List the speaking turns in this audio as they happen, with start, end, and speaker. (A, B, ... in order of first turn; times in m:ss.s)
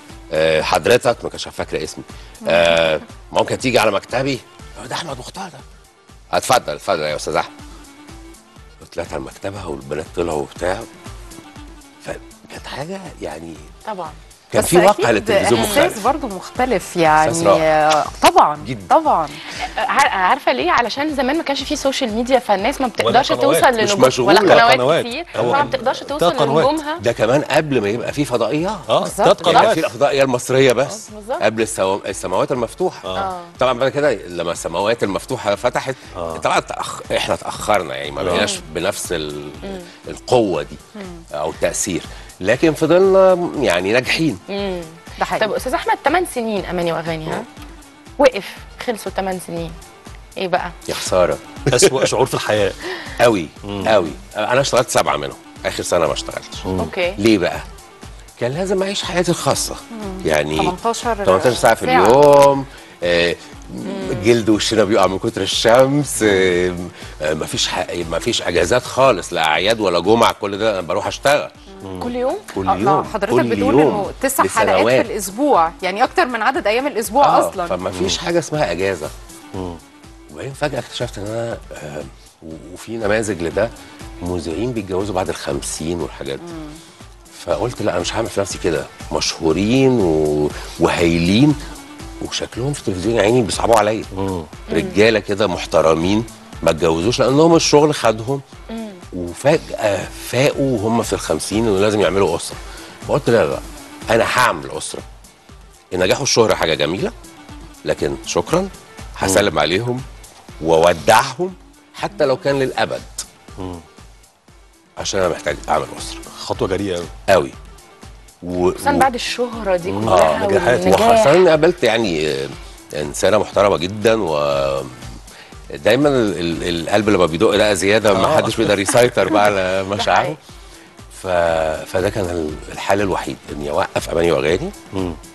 0:00.3-0:05.6 A
0:06.3-0:07.5 A
0:08.8-0:10.9 A
0:12.0-0:13.7 A
0:13.9-0:14.2 B
0:14.5-0:16.1 A
0:14.6-0:19.4 C
0:15.6-0:15.9 B
0:17.2-0:17.6 A
0:18.6-0:18.9 A
0:19.6-0:27.0 B
0:23.0-0:23.7 D
0:23.8-0:24.7 A
0:24.4-0:26.7 D
0:25.4-0:25.8 A
0:27.0-0:40.8 A
0:28.9-0:29.9 D
0:29.0-0:29.6 C
0:30.9-0:31.4 B
0:33.0-0:33.3 D
0:33.1-0:33.6 B
0:36.1-0:36.4 D
0:38.2-0:38.4 D
0:38.3-0:38.6 B
0:39.6-0:39.9 B
0:41.0-0:41.2 C
0:41.3-0:44.4 A
0:44.5-0:47.5 B
0:45.2-0:45.5 C
0:48.2-0:49.7 B
0:50.4-0:50.8 B
0:50.9-0:52.1 A
0:51.6-0:52.8 D
0:53.2-0:57.6 A
0:53.6-0:53.9 D
0:56.6-0:56.9 D
0:56.8-0:57.2 B
0:58.4-1:11.5 A
0:59.9-1:02.4 C
1:03.8-1:04.3 B
1:06.2-1:06.5 D
1:11.8-1:12.8 D
1:12.0-1:12.5 B
1:12.5-1:15.1 A
1:12.6-1:17.8 C
1:17.2-1:19.1 A
1:17.9-1:18.2 D
1:19.5-1:19.8 D
1:20.3-1:26.5 A
1:26.4-1:26.8 C
1:27.3-1:31.6 A
1:32.2-1:34.1 A
1:34.1-1:34.5 D
1:34.7-1:35.0 B
1:34.7-1:38.4 A
1:38.7-1:39.0 B
1:39.1-1:45.1 A
1:45.9-1:47.1 A
1:47.9-1:50.0 A
1:49.2-1:49.5 D
1:50.6-1:53.2 A
1:53.6-1:53.8 D
1:55.0-1:56.2 A
1:56.4-1:57.1 D
1:57.3-1:57.6 A
1:58.4-1:59.1 A
1:58.8-2:01.4 B
1:59.9-2:01.0 D
2:00.0-2:05.2 A
2:05.7-2:10.4 A
2:08.1-2:08.7 D
2:09.9-2:10.4 B
2:11.1-2:14.7 A
2:14.9-2:15.2 D